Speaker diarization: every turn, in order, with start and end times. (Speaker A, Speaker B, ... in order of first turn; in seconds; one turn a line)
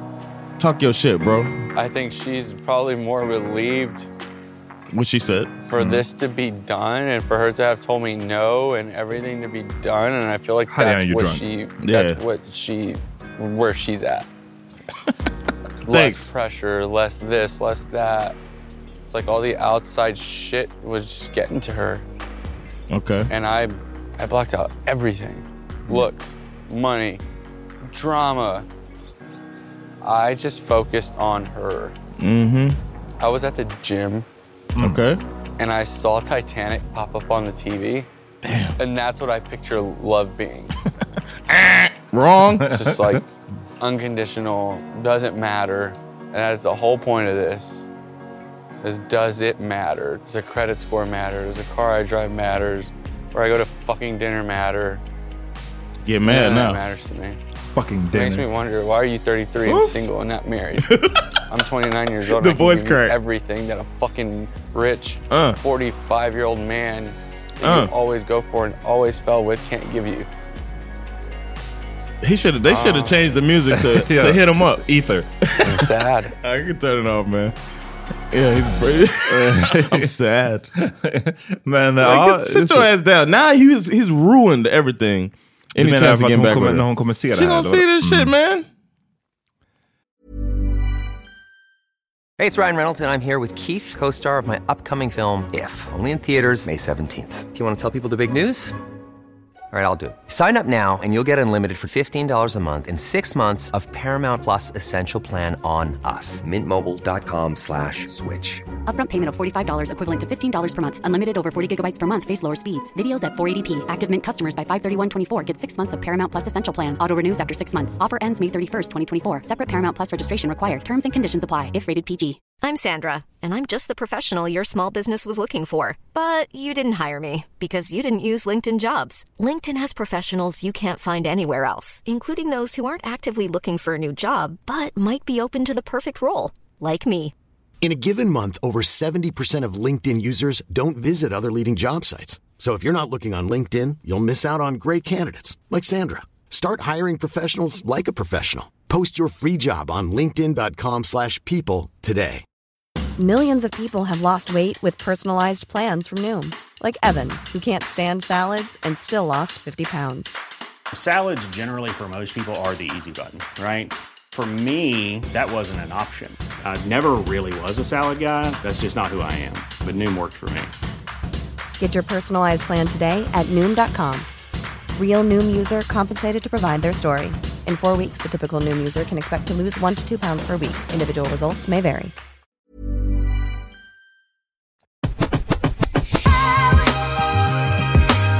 Speaker A: 0.6-1.5
Speaker B: 1.7-4.1
Speaker A: 4.9-5.5
Speaker B: 5.7-14.3
Speaker C: 5.8-6.0
Speaker C: 10.7-11.4
Speaker A: 11.8-12.2
Speaker B: 15.8-18.4
Speaker A: 15.8-16.3
Speaker B: 19.1-22.0
Speaker A: 22.9-23.3
Speaker B: 23.3-27.2
Speaker B: 27.9-28.7
Speaker B: 30.0-31.9
Speaker A: 32.2-32.8
Speaker B: 33.2-34.2
Speaker A: 34.8-35.2
Speaker B: 35.6-38.1
Speaker A: 38.4-38.8
Speaker B: 38.8-40.7
Speaker A: 41.5-42.7
Speaker B: 42.7-43.2
Speaker C: 42.8-43.2
Speaker B: 43.8-47.9
Speaker B: 48.8-55.0
Speaker A: 56.0-56.8
Speaker B: 56.2-57.4
Speaker C: 57.7-58.5
Speaker B: 58.1-60.9
Speaker C: 59.7-60.0
Speaker A: 60.9-61.2
Speaker B: 61.5-70.3
Speaker A: 62.3-63.1
Speaker A: 65.3-65.6
Speaker A: 67.6-67.9
Speaker A: 72.2-74.8
Speaker B: 72.7-73.2
Speaker C: 73.8-75.3
Speaker A: 75.5-75.8
Speaker B: 75.6-76.3
Speaker A: 76.4-77.5
Speaker A: 78.3-80.7
Speaker C: 79.3-80.1
Speaker C: 80.8-82.9
Speaker A: 82.0-88.7
Speaker C: 85.8-88.3
Speaker D: 92.4-98.7
Speaker D: 99.7-108.6
Speaker E: 108.9-122.4
Speaker F: 122.6-137.3
Speaker G: 137.8-152.4
Speaker H: 153.2-160.3
Speaker I: 160.9-170.7
Speaker H: 171.8-174.3
Speaker H: 174.9-182.1